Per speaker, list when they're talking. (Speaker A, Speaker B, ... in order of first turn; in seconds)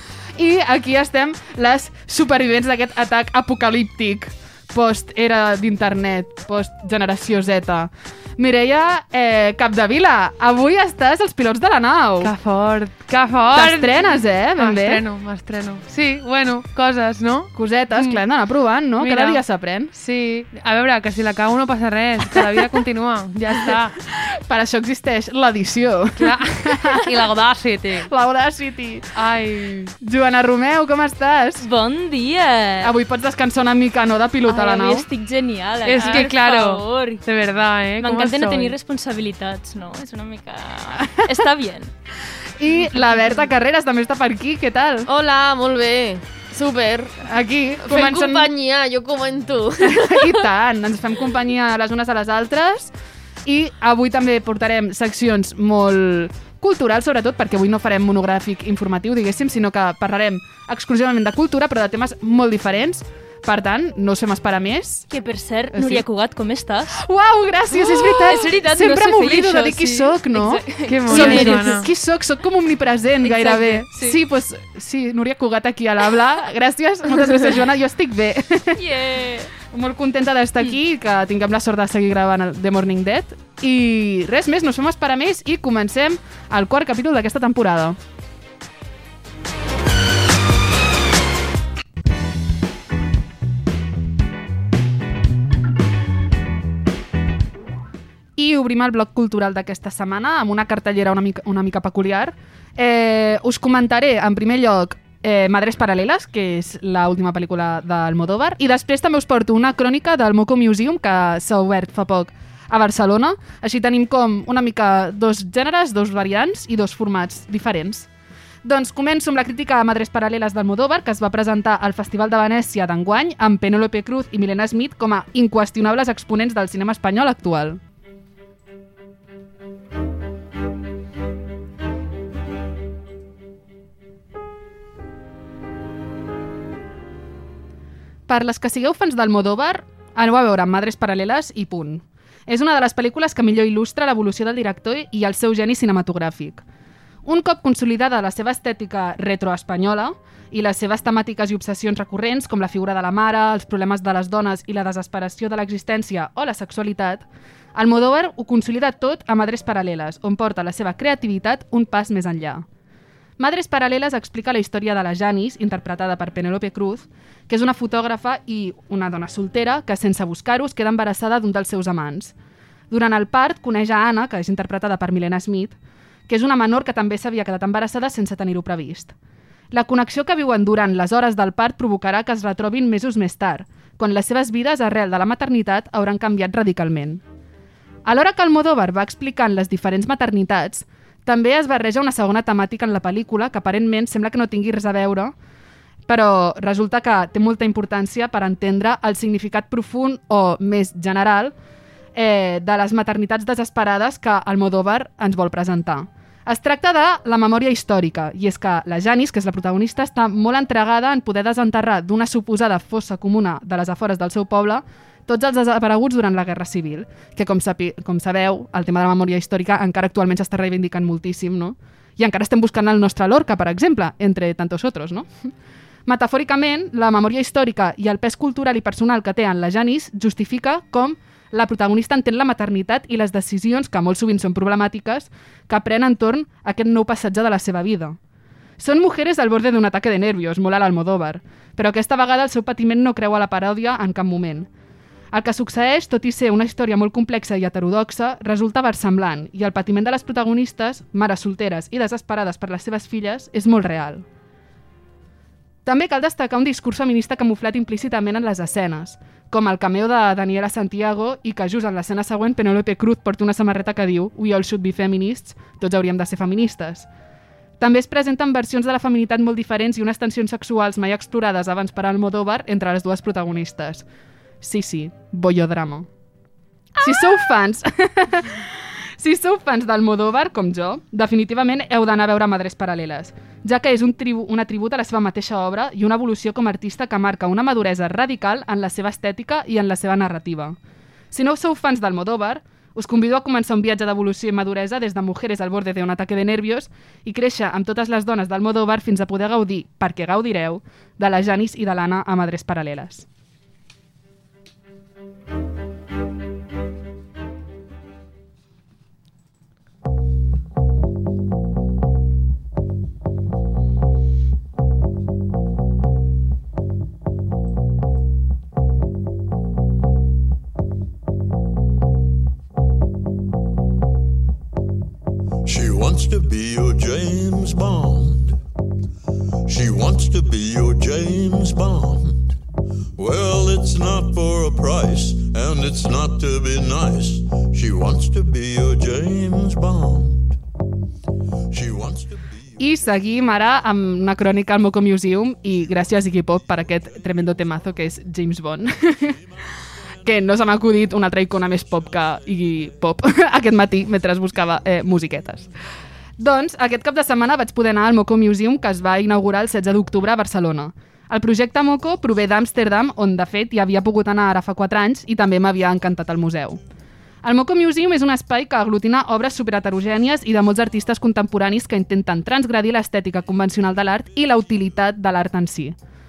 Speaker A: 0.4-12.3, 13.5-15.0, 17.5-19.9, 24.3-27.0, 28.1-29.1, 30.0-31.6, 32.8-35.1, 42.6-45.1, 47.2-48.5, 49.8-52.9, 53.4-65.0, 65.7-66.0, 66.9-78.8, 79.7-88.0, 98.4-118.1, 118.6-127.8, 138.3-146.6, 147.2-162.7, 163.4-172.3, 172.9-175.8, 176.3-179.1, 179.7-187.2, 188.0-195.3, 196.1-201.5, 202.1-225.5, 226.1-238.2, 238.8-244.7, 245.3-254.2, 255.8-267.1, 267.8-274.0, 274.6-276.1, 277.0-290.8, 291.3-303.2, 342.8-349.4, 350.2-355.7, 356.4-366.8, 367.4-375.9
Speaker B: 12.2-18.2, 19.0-19.4, 19.9-23.9, 26.2-28.1, 29.1-29.9, 35.8-38.7, 70.8-71.9
Speaker C: 31.6-32.9, 34.5-37.2, 38.0-41.9, 65.1-67.0, 68.0-71.8, 73.2-74.2, 78.7-79.5
Speaker D: 45.1-47.2, 47.8-50.4
Speaker E: 325.6-328.6, 329.7-332.6, 333.2-340.6, 341.7-342.7